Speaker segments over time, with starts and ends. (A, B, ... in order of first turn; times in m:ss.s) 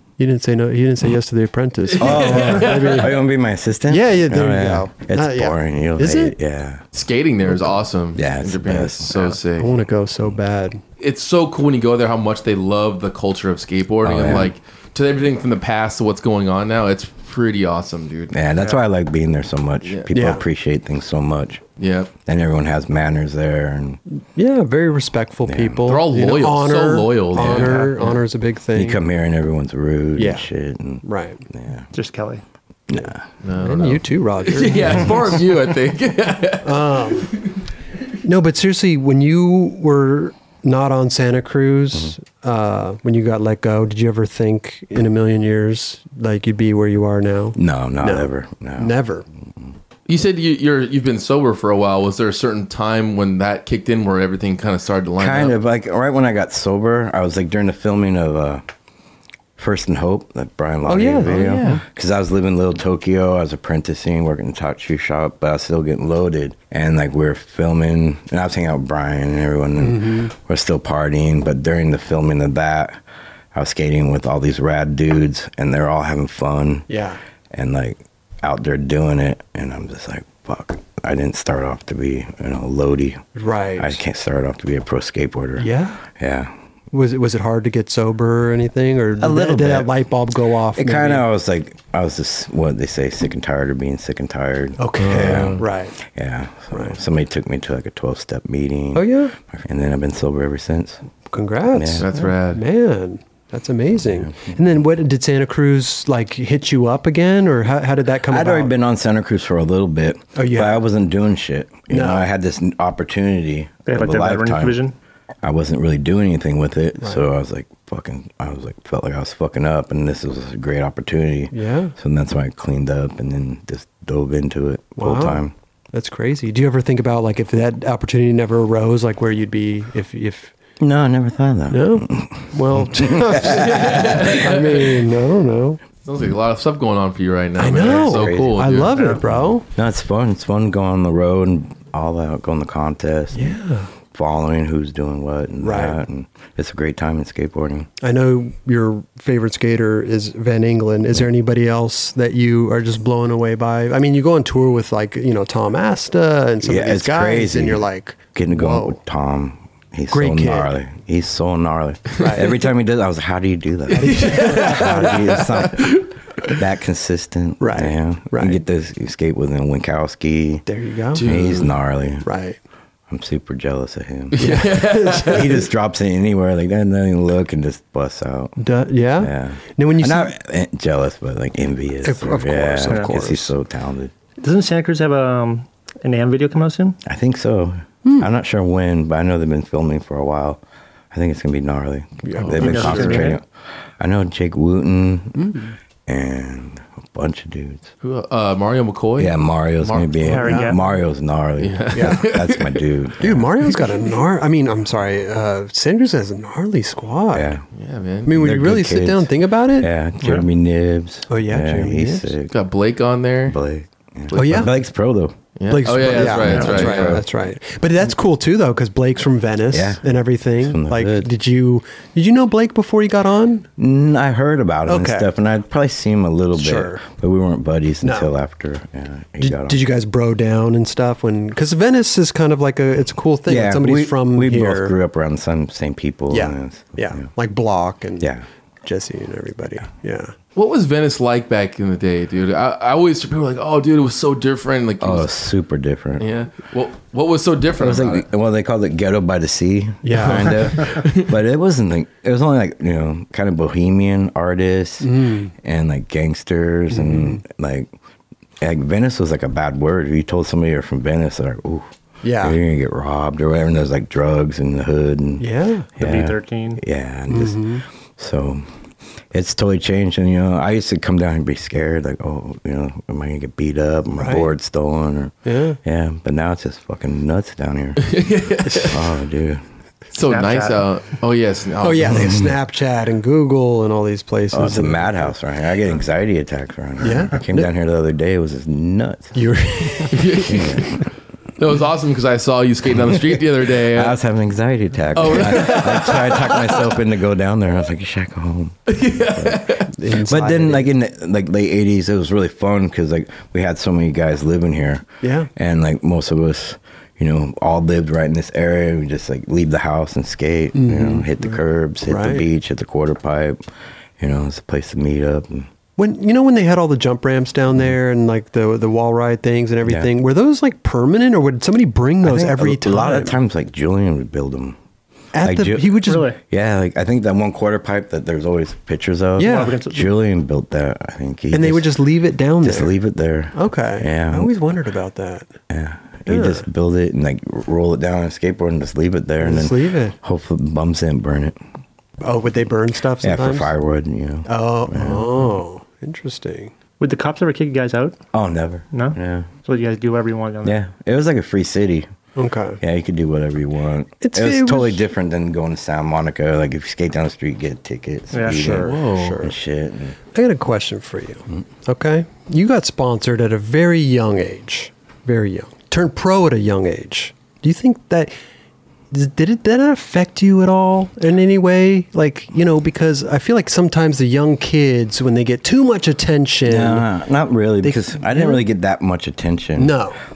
0:00.2-0:03.2 A
0:01.9-0:03.1 B
0:02.0-0:06.8 C
0:03.9-0:06.4 A
0:06.9-0:09.7 B
0:08.2-0:09.4 C
0:09.6-0:10.8 A
0:11.0-0:18.5 B
0:14.0-0:14.5 C
0:18.3-0:21.6 C
0:19.8-0:20.1 B
0:20.1-0:20.4 A
0:21.8-0:22.1 B
0:22.2-0:24.0 C
0:24.1-0:29.0 A
0:25.5-0:25.8 C
0:25.8-0:28.2 B
0:27.5-0:27.9 D
0:28.8-0:31.9 C
0:30.2-0:30.5 A
0:31.0-0:31.4 A
0:31.9-0:32.4 D
0:32.9-0:33.2 C
0:33.0-0:35.4 A
0:33.4-0:37.4 B
0:36.6-0:37.4 A
0:38.2-0:49.3 A
0:47.6-0:48.9 C
0:50.1-0:55.6 B
0:55.2-0:58.6 C
0:59.6-1:13.0 C
1:00.9-1:01.7 A
1:01.4-1:01.8 B
1:09.8-1:10.3 A
1:13.5-1:16.9 C
1:16.9-1:17.2 A
1:17.5-1:23.2 C
1:23.4-1:24.0 A
1:23.8-1:26.5 C
1:25.6-1:26.0 A
1:26.9-1:31.2 A
1:29.2-1:29.9 C
1:30.8-1:41.0 C
1:34.8-1:36.0 A
1:35.0-1:35.6 B
1:36.7-1:37.0 A
1:38.9-1:39.3 A
1:41.3-1:48.7 A
1:41.7-1:42.1 C
1:42.0-1:42.6 B
1:44.0-1:44.6 C
1:48.3-1:54.8 C
1:50.4-1:50.8 A
1:51.9-1:52.3 A
1:53.9-1:54.9 D
1:55.4-2:05.5 C
1:57.0-1:57.3 A
2:01.5-2:02.0 A
2:05.0-2:10.5 A
2:10.8-2:14.4 C
2:11.7-2:15.8 A
2:13.4-2:15.0 B
2:16.0-2:19.2 B
2:17.6-2:19.7 A
2:17.7-2:23.6 C
2:18.9-2:19.2 D
2:23.3-2:23.9 A
2:24.1-2:27.9 C
2:25.6-2:26.0 A
2:28.0-2:39.0 A
2:36.6-2:50.6 C
2:40.1-2:40.7 A
2:42.2-2:42.5 A
2:43.9-2:45.6 A
2:43.9-2:46.1 B
2:47.6-2:48.6 A
2:50.7-2:51.3 A
2:51.1-2:51.7 B
2:51.2-2:52.3 C
2:52.2-2:52.6 A
2:53.1-2:58.6 C
2:54.3-2:55.6 B
2:54.4-2:55.7 A
2:58.6-3:00.3 A
2:59.2-3:04.1 C
3:02.0-3:03.5 A
3:04.4-3:07.0 D
3:07.0-3:13.5 C
3:12.2-3:13.4 A
3:12.4-3:13.2 B
3:12.6-3:13.4 D
3:14.0-3:15.5 C
3:15.4-3:15.7 A
3:16.1-3:17.9 C
3:18.0-3:20.2 B
3:19.2-3:23.5 C
3:20.2-3:20.8 D
3:20.2-3:20.8 A
3:21.6-3:22.8 B
3:21.9-3:22.3 A
3:23.2-3:27.6 A
3:27.3-3:27.6 C
3:27.7-3:28.4 B
3:28.3-3:29.9 A
3:28.3-3:32.5 C
3:31.3-3:32.3 A
3:32.5-3:33.6 B
3:33.5-3:35.4 C
3:34.3-3:34.7 B
3:34.3-3:34.7 A
3:35.6-3:37.2 B
3:35.7-3:43.7 A
3:35.9-3:37.3 C
3:36.4-3:37.0 D
3:39.7-3:41.3 C
3:43.8-3:49.8 C
3:44.9-3:45.3 A
3:46.6-3:47.0 A
3:48.0-3:48.3 A
3:49.4-3:54.9 A
3:53.5-3:57.3 C
3:56.3-3:58.3 A
3:58.8-4:00.3 A
4:00.6-4:05.3 B
4:05.0-4:06.3 C
4:06.2-4:08.3 B
4:07.8-4:17.9 C
4:10.0-4:10.8 A
4:10.3-4:11.3 B
4:15.0-4:15.5 A
4:16.9-4:17.4 A
4:18.6-4:21.9 C
4:22.2-4:22.6 A
4:22.4-4:28.6 C
4:25.4-4:25.9 A
4:26.0-4:26.8 D
4:27.3-4:27.8 A
4:29.3-4:38.2 C
4:34.2-4:34.5 A
4:35.4-4:35.8 A
4:38.0-4:39.0 B
4:38.8-4:39.6 C
4:40.1-4:42.4 B
4:40.3-4:40.9 D
4:41.8-4:45.3 A
4:44.5-4:49.4 C
4:47.0-4:47.6 A
4:49.3-4:51.0 A
4:50.1-4:51.0 B
4:50.5-4:51.0 C
4:51.6-4:54.2 B
4:53.0-4:59.7 C
4:55.1-4:56.9 B
4:58.9-4:59.9 B
4:59.9-5:00.9 A
5:00.3-5:13.6 C
5:05.2-5:05.5 A
5:10.8-5:12.5 A
5:14.2-5:15.7 C
5:16.0-5:23.4 A
5:19.8-5:20.1 C
5:22.2-5:24.8 C
5:25.3-5:26.3 A
5:25.4-5:32.0 C
5:26.1-5:26.4 D
5:29.4-5:29.8 A
5:29.4-5:30.1 D
5:31.5-5:32.9 A
5:32.6-5:34.5 C
5:33.5-5:35.6 A
5:35.7-5:41.6 C
5:36.3-5:36.6 A
5:39.4-5:40.2 A
5:42.2-5:43.7 A
5:43.2-5:45.4 C
5:44.5-5:46.7 A
5:47.0-5:48.2 D
5:48.3-5:49.5 C
5:48.9-5:50.8 D
5:50.6-5:52.1 C
5:52.4-5:52.8 A
5:52.8-6:00.2 C
5:54.2-5:55.0 A
5:58.3-5:58.7 D
5:58.5-5:59.5 A
5:58.6-5:59.4 B
6:00.3-6:08.3 A
6:09.1-6:17.1 A
6:16.7-6:20.0 C
6:17.8-6:18.6 A
6:19.8-6:20.2 A